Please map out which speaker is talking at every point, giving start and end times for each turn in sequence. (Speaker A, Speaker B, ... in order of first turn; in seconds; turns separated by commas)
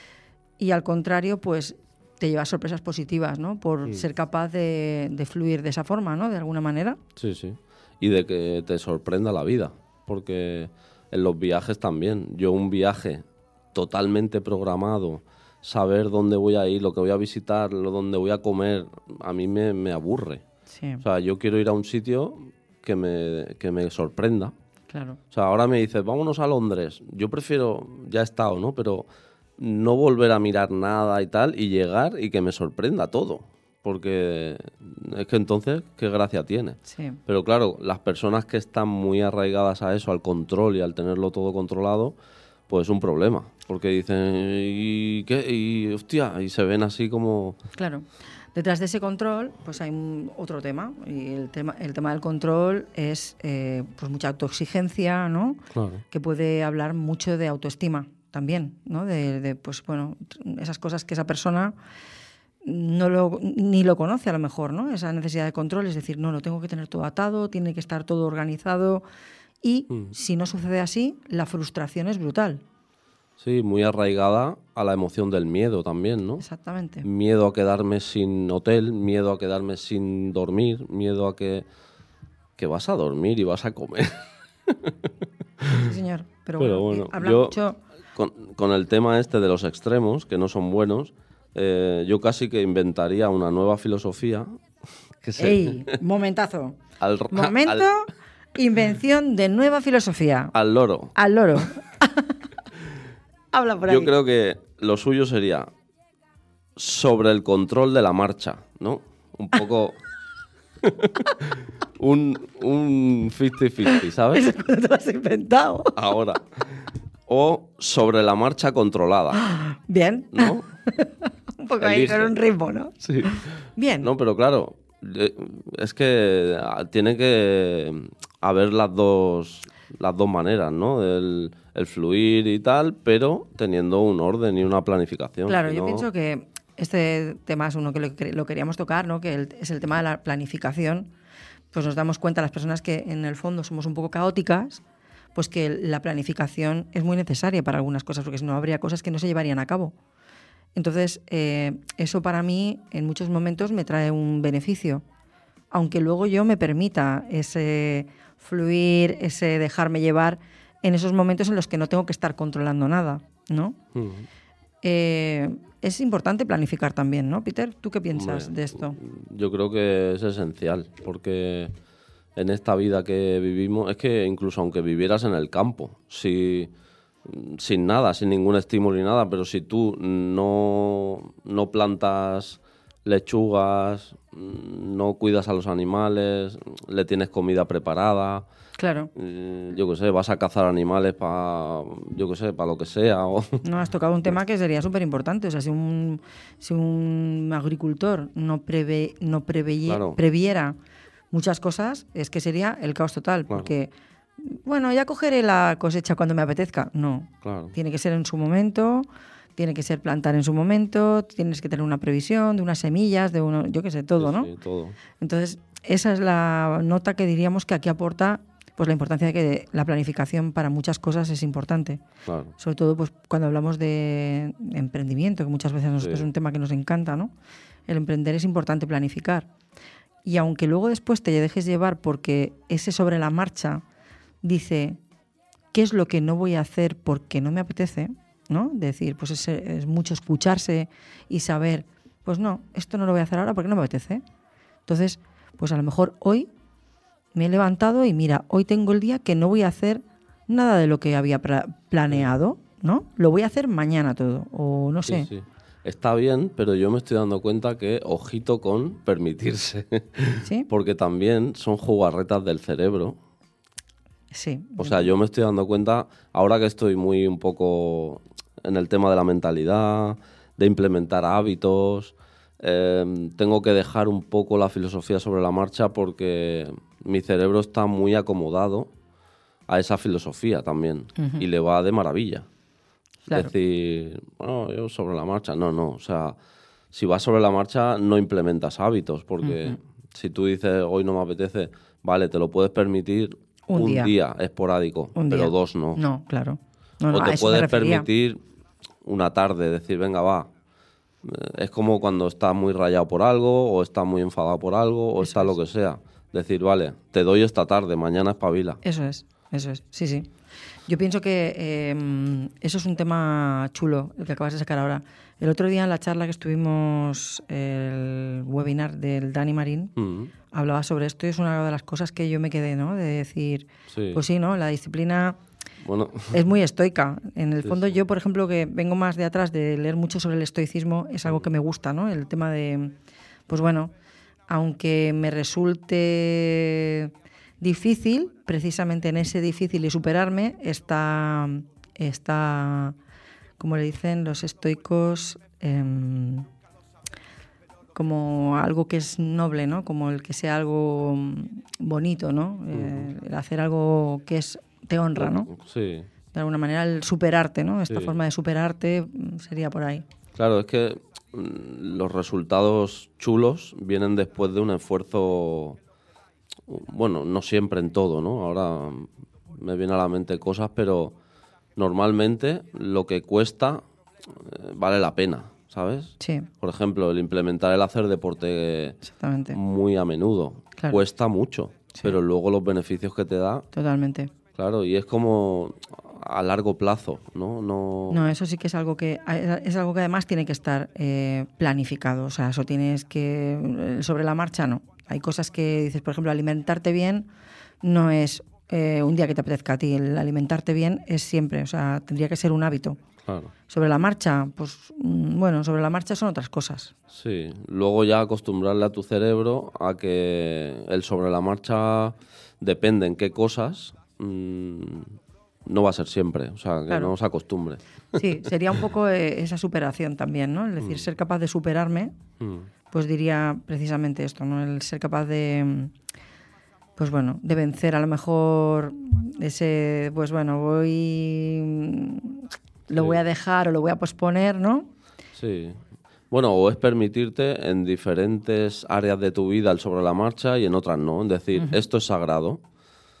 Speaker A: 0.6-7.0, Speaker B: 7.2-20.4, Speaker A: 20.7-21.0, Speaker B: 21.0-24.5, Speaker A: 24.9-25.2, Speaker B: 25.3-42.1, Speaker A: 36.9-37.2, Speaker B: 42.7-47.6, Speaker A: 47.8-61.8, Speaker B: 55.7-56.0, Speaker A: 62.6-69.0, Speaker A: 69.6-72.6, Speaker B: 73.4-76.4, Speaker A: 76.4-77.1, Speaker B: 77.0-81.7, Speaker B: 82.6-84.1, Speaker B: 84.7-84.9, Speaker A: 85.8-87.8, Speaker B: 86.6-87.6, Speaker B: 88.1-94.5, Speaker B: 95.2-96.0, Speaker A: 95.4-96.8, Speaker B: 97.0-97.9, Speaker A: 97.3-100.5, Speaker B: 100.5-101.1, Speaker A: 101.1-102.4, Speaker A: 103.5-104.1, Speaker B: 103.8-105.7, Speaker B: 106.8-110.0, Speaker B: 110.8-111.3, Speaker B: 112.0-114.4, Speaker A: 113.9-115.9, Speaker B: 115.9-116.4, Speaker B: 117.3-119.4, Speaker A: 119.3-124.1, Speaker B: 120.3-120.6, Speaker B: 121.8-122.3, Speaker B: 123.0-123.4, Speaker B: 124.0-136.1, Speaker A: 135.4-141.1, Speaker A: 141.7-144.8, Speaker A: 145.3-149.9, Speaker A: 150.7-155.0, Speaker A: 155.7-163.8, Speaker B: 163.9-164.3, Speaker A: 164.8-169.0, Speaker B: 168.1-171.7, Speaker B: 172.3-176.7, Speaker B: 177.2-188.4, Speaker A: 188.8-189.1, Speaker B: 189.2-193.6, Speaker A: 193.6-200.8, Speaker B: 199.8-200.2, Speaker A: 201.3-214.5, Speaker B: 207.4-207.7, Speaker B: 214.2-215.0, Speaker A: 215.2-222.0, Speaker B: 222.2-222.5, Speaker A: 222.6-227.3, Speaker B: 226.0-226.3, Speaker A: 227.9-229.5, Speaker A: 230.2-233.8, Speaker A: 234.4-235.0, Speaker A: 235.7-244.2, Speaker A: 244.8-246.5, Speaker A: 247.3-255.3, Speaker B: 255.0-263.2, Speaker A: 260.4-260.7, Speaker A: 264.3-265.1, Speaker B: 264.8-278.9, Speaker B: 279.7-282.4, Speaker A: 281.2-281.4, Speaker A: 283.2-283.5, Speaker B: 283.3-286.4, Speaker B: 286.9-296.0, Speaker A: 289.4-289.8, Speaker A: 293.7-294.1, Speaker A: 295.1-298.1, Speaker B: 297.1-298.4, Speaker B: 299.0-300.5, Speaker B: 301.2-308.8, Speaker A: 305.2-305.5, Speaker A: 308.8-310.3, Speaker A: 310.9-319.9, Speaker B: 320.0-320.3, Speaker A: 320.5-325.4, Speaker B: 323.9-324.2, Speaker B: 325.8-326.4, Speaker A: 326.3-332.9, Speaker B: 327.6-328.0, Speaker A: 333.5-333.9, Speaker A: 334.5-342.9, Speaker A: 343.6-346.5, Speaker A: 347.9-355.5, Speaker B: 352.7-353.1, Speaker B: 355.2-356.1, Speaker A: 356.3-360.0, Speaker B: 357.9-358.2, Speaker B: 360.3-365.8, Speaker B: 366.7-371.1, Speaker B: 371.8-373.8, Speaker B: 374.3-383.6, Speaker A: 376.2-376.5, Speaker A: 379.0-379.6, Speaker A: 380.8-381.0, Speaker A: 381.9-382.2, Speaker A: 383.7-384.3, Speaker B: 384.6-388.3, Speaker A: 388.1-397.3, Speaker A: 397.8-403.0, Speaker B: 403.2-403.5, Speaker A: 403.7-406.9, Speaker B: 407.1-415.1, Speaker B: 415.6-418.2, Speaker A: 418.1-422.1, Speaker B: 420.8-421.1, Speaker B: 422.4-422.7, Speaker A: 422.9-425.9, Speaker A: 427.0-434.9, Speaker B: 435.3-435.8, Speaker B: 436.3-442.6, Speaker A: 441.6-441.8